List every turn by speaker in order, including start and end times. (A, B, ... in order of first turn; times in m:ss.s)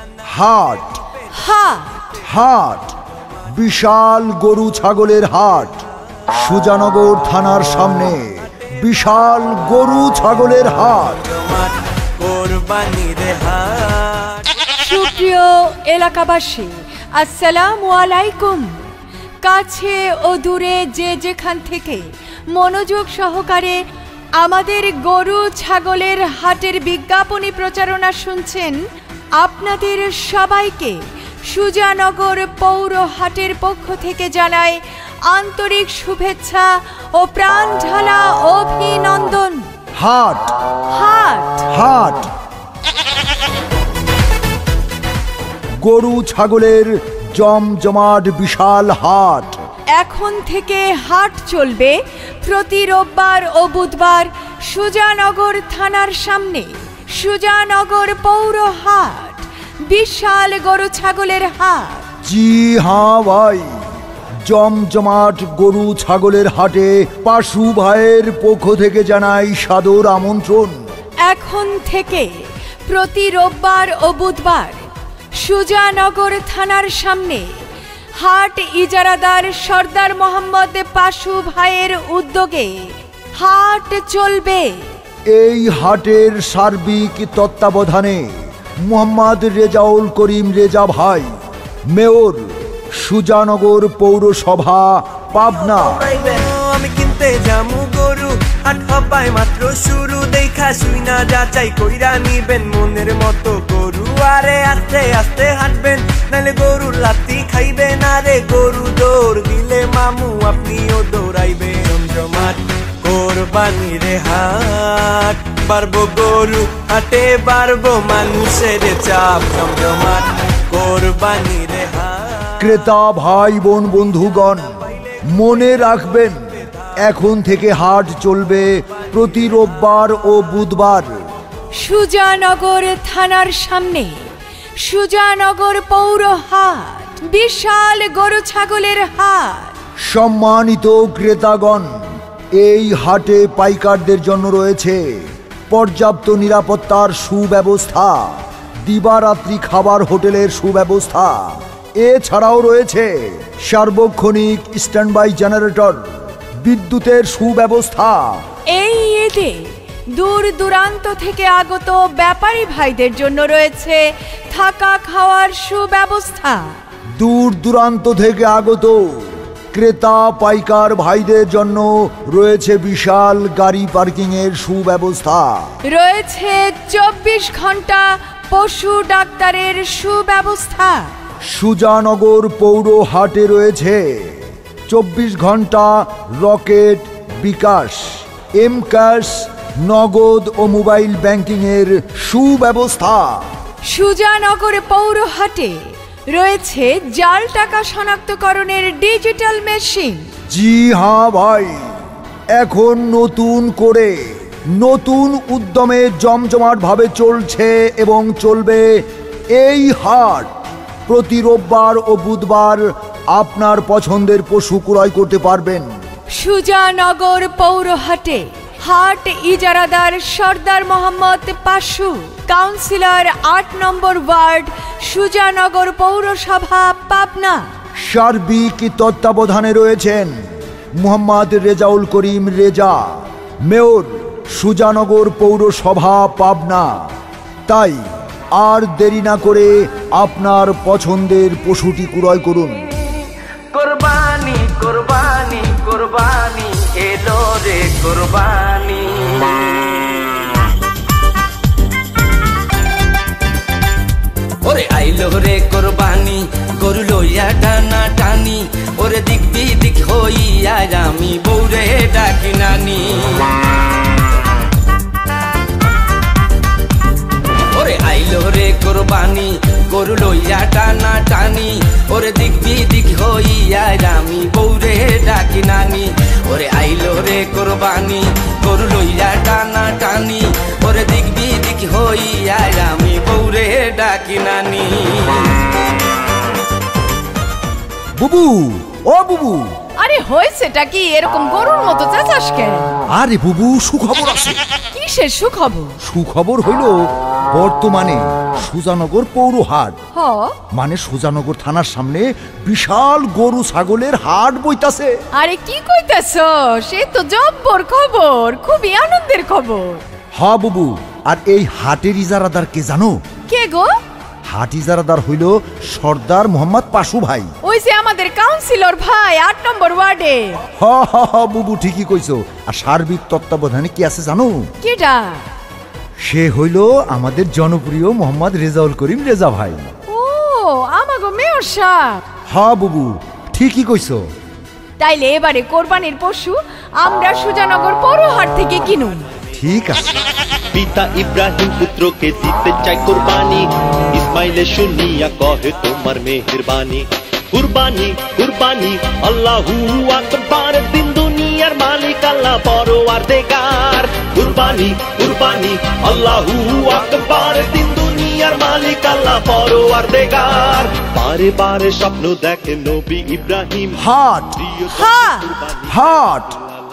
0:00.3-0:01.0 A
0:01.3-0:02.1 B
0:02.2-0:03.0 A
0:03.5-0:11.2 A
0:11.3-0:14.5 C
0:14.8-0:18.8 B
0:19.4-0:23.8 B
0:24.4-0:28.8 B
0:29.4-0:39.7 B
0:40.0-0:40.5 A
0:40.9-0:41.7 B
0:41.7-0:42.3 A
0:45.8-0:49.6 A
0:50.0-1:02.0 B
1:02.2-1:03.8 A
1:04.4-1:10.8 A
1:11.2-1:17.6 B
1:18.2-1:24.9 B
1:25.3-1:28.3 A
1:28.8-1:31.3 A
1:31.9-1:36.1 A
1:35.9-2:02.5 C
2:02.6-2:11.2 A
2:11.8-2:19.8 B
2:20.1-2:21.9 A
2:22.6-2:38.4 A
2:38.7-2:46.8 B
2:47.2-2:55.6 A
2:55.8-3:01.1 B
3:01.5-3:13.5 A
3:13.8-3:20.3 B
3:20.5-3:21.9 A
3:22.5-3:29.0 A
3:29.6-3:35.9 A
3:36.3-3:47.7 B
3:48.0-3:50.4 A
3:51.0-3:57.0 A
3:57.7-4:02.8 A
4:02.8-4:10.6 D
4:14.6-4:23.6 D
4:27.7-4:45.6 D
4:48.2-4:49.7 A
4:50.0-4:53.0 B
4:53.1-4:54.6 A
4:54.9-4:56.0 B
4:56.0-5:00.0 A
5:00.1-5:00.6 B
5:00.7-5:05.1 A
5:05.4-5:10.0 B
5:10.4-5:13.2 A
5:13.5-5:14.0 B
5:14.5-5:17.5 A
5:17.6-5:20.6 B
5:20.8-5:24.7 A
5:24.8-5:25.5 B
5:26.2-5:29.9 A
5:30.1-5:32.3 B
5:32.5-5:34.2 A
5:35.0-5:39.3 B
5:39.6-5:40.2 A
5:40.7-6:04.0 E
6:04.0-6:04.6 A
6:04.6-6:06.7 E
6:04.9-6:05.5 B
6:05.9-6:06.6 A